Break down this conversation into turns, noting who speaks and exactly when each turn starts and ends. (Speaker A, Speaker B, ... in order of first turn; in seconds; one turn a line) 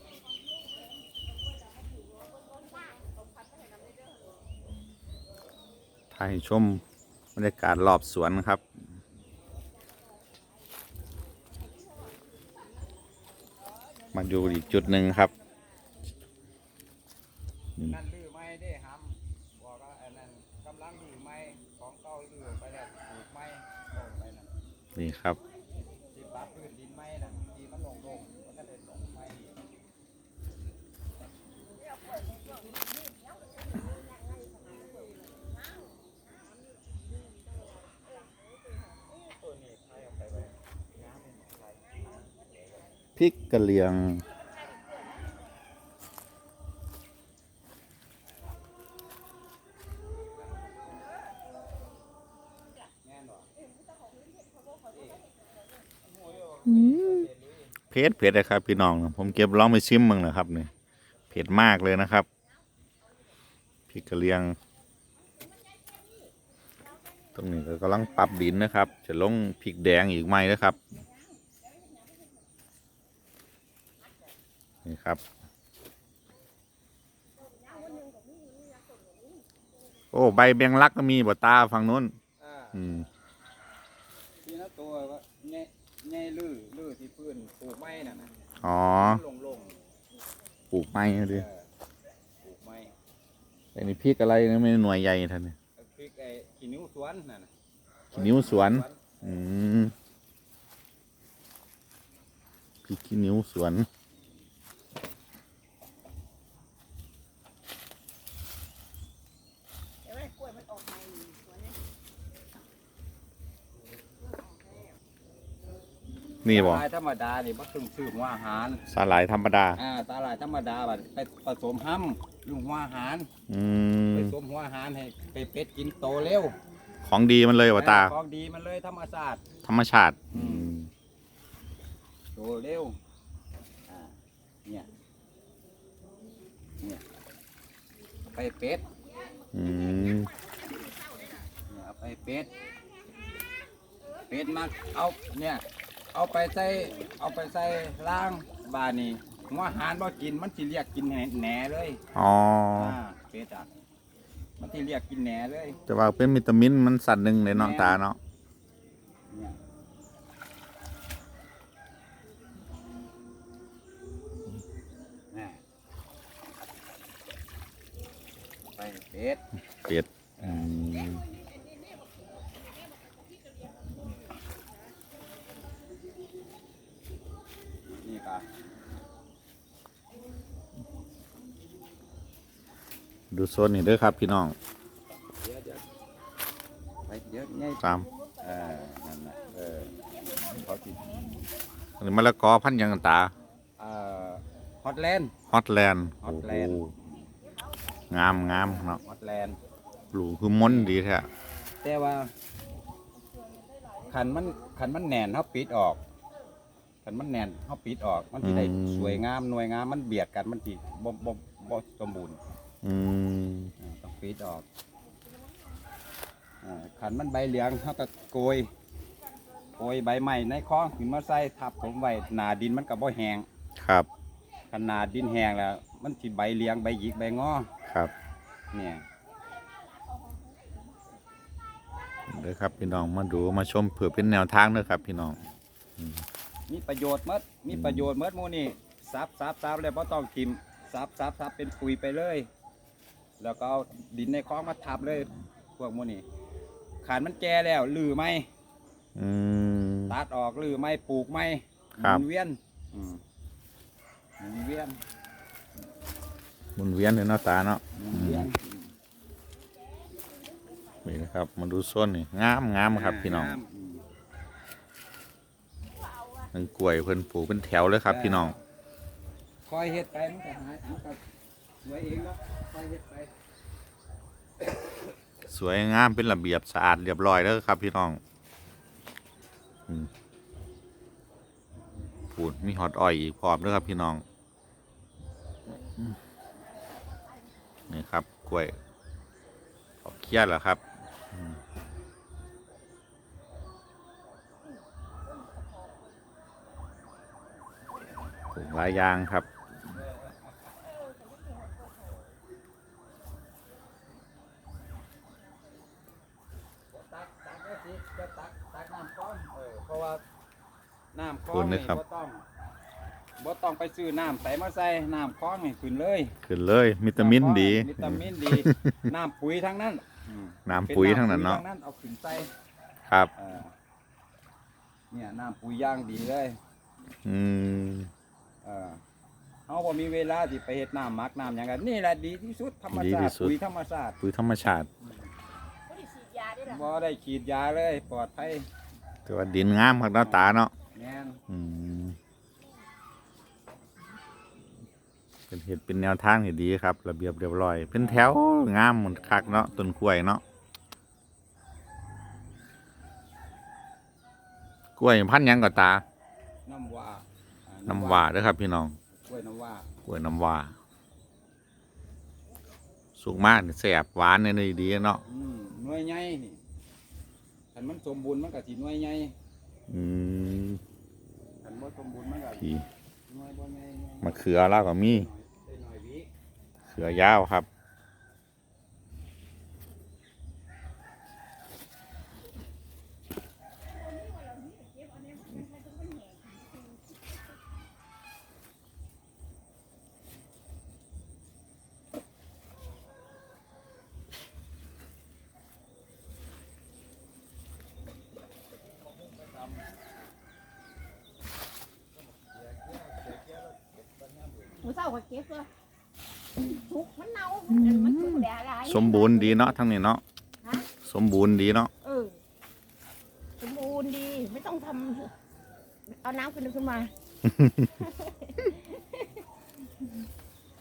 Speaker A: 2.6-4.2
Speaker B: 6.1-6.8
Speaker B: 7.4-8.6
Speaker B: 14.1-15.3
Speaker C: 17.8-24.5
Speaker B: 24.9-25.4
Speaker C: 26.1-29.6
Speaker C: 39.2-42.9
Speaker B: 43.2-44.2
Speaker C: 53.0-53.5
Speaker C: 54.9-55.2
Speaker C: 56.0-57.7
Speaker B: 56.6-57.3
Speaker B: 57.9-60.7
Speaker B: 61.3-62.3
Speaker B: 63.9-64.6
Speaker B: 67.3-70.8
Speaker B: 74.8-75.2
Speaker A: 77.8-79.4
Speaker B: 80.1-82.2
Speaker C: 82.4-82.8
Speaker B: 82.7-83.1
Speaker C: 84.4-88.3
Speaker B: 88.6-89.2
Speaker C: 88.9-89.8
Speaker B: 90.7-91.4
Speaker C: 91.2-91.7
Speaker C: 92.4-92.9
Speaker B: 93.8-95.6
Speaker C: 95.8-97.5
Speaker C: 98.1-99.1
Speaker B: 98.1-99.9
Speaker B: 102.8-103.9
Speaker A: 110.2-111.4
Speaker B: 116.4-116.9
Speaker C: 116.5-118.8
Speaker B: 118.9-119.8
Speaker C: 119.8-123.3
Speaker B: 123.5-124.3
Speaker C: 124.1-126.6
Speaker B: 127.0-128.1
Speaker C: 127.7-129.4
Speaker B: 129.6-130.9
Speaker C: 130.3-130.7
Speaker C: 132.3-133.0
Speaker C: 133.9-134.9
Speaker C: 138.3-138.8
Speaker B: 139.5-140.3
Speaker C: 141.7-142.5
Speaker C: 144.3-152.0
Speaker B: 152.1-153.0
Speaker C: 152.7-153.7
Speaker C: 154.6-155.8
Speaker B: 155.9-158.2
Speaker C: 157.5-158.0
Speaker C: 159.3-159.6
Speaker C: 165.3-165.6
Speaker C: 168.8-169.4
Speaker B: 169.8-171.3
Speaker C: 170.4-170.7
Speaker A: 171.4-172.2
Speaker A: 172.8-173.7
Speaker C: 178.0-178.5
Speaker B: 183.3-184.5
Speaker C: 185.4-185.9
Speaker C: 187.1-187.8
Speaker B: 187.8-188.1
Speaker C: 188.4-191.4
Speaker B: 192.0-193.3
Speaker C: 193.8-195.3
Speaker B: 195.5-197.0
Speaker C: 196.2-196.8
Speaker B: 198.1-199.0
Speaker C: 198.5-199.6
Speaker B: 200.1-201.3
Speaker C: 200.6-201.0
Speaker C: 201.8-202.3
Speaker C: 204.1-206.0
Speaker C: 207.0-212.4
Speaker B: 208.4-209.2
Speaker B: 212.8-213.7
Speaker C: 213.8-214.7
Speaker C: 216.6-218.7
Speaker C: 219.8-223.5
Speaker B: 223.8-224.1
Speaker C: 224.7-227.7
Speaker B: 227.9-228.1
Speaker C: 228.7-229.0
Speaker A: 229.7-230.8
Speaker B: 232.3-235.4
Speaker B: 236.0-236.2
Speaker C: 236.7-242.5
Speaker B: 237.7-238.1
Speaker C: 243.4-246.2
Speaker C: 247.0-248.5
Speaker B: 249.2-250.2
Speaker C: 250.1-253.2
Speaker C: 254.4-255.0
Speaker B: 256.8-258.5
Speaker C: 257.9-258.9
Speaker A: 260.5-260.8
Speaker B: 261.0-263.6
Speaker C: 262.8-264.0
Speaker B: 266.5-268.5
Speaker C: 268.1-268.6
Speaker C: 269.6-271.2
Speaker C: 271.8-273.3
Speaker B: 275.5-278.2
Speaker B: 282.3-284.2
Speaker B: 287.9-288.8
Speaker B: 290.0-291.6
Speaker B: 298.5-299.5
Speaker C: 299.9-300.5
Speaker A: 301.4-301.7
Speaker C: 306.9-310.2
Speaker C: 311.1-312.4
Speaker B: 311.5-312.0
Speaker C: 313.4-316.4
Speaker B: 316.4-319.1
Speaker C: 317.1-322.5
Speaker B: 320.6-321.6
Speaker B: 323.1-323.3
Speaker C: 323.4-323.7
Speaker C: 325.1-326.6
Speaker B: 327.2-328.1
Speaker C: 328.6-329.0
Speaker C: 329.7-334.1
Speaker B: 332.9-333.6
Speaker B: 334.2-334.9
Speaker C: 335.0-335.3
Speaker A: 335.9-336.6
Speaker C: 336.6-338.7
Speaker B: 339.2-340.7
Speaker C: 340.2-341.4
Speaker B: 341.5-342.2
Speaker B: 345.5-350.4
Speaker C: 348.0-348.4
Speaker C: 349.0-349.9
Speaker B: 355.0-356.0
Speaker C: 356.6-358.3
Speaker B: 357.9-359.0
Speaker C: 359.1-359.9
Speaker B: 360.1-360.7
Speaker B: 363.2-365.2
Speaker C: 365.2-366.6
Speaker C: 367.7-369.4
Speaker B: 369.9-370.8
Speaker C: 371.6-376.3
Speaker B: 372.6-372.9
Speaker B: 374.2-375.3
Speaker B: 376.9-377.7
Speaker A: 384.2-386.5
Speaker C: 399.0-399.9
Speaker C: 402.1-404.9
Speaker A: 404.9-405.7
Speaker A: 406.6-409.7
Speaker B: 407.7-410.2
Speaker B: 411.0-411.9
Speaker A: 412.0-412.4
Speaker A: 413.6-415.3
Speaker A: 416.1-417.1
Speaker B: 417.4-418.0
Speaker A: 418.1-419.0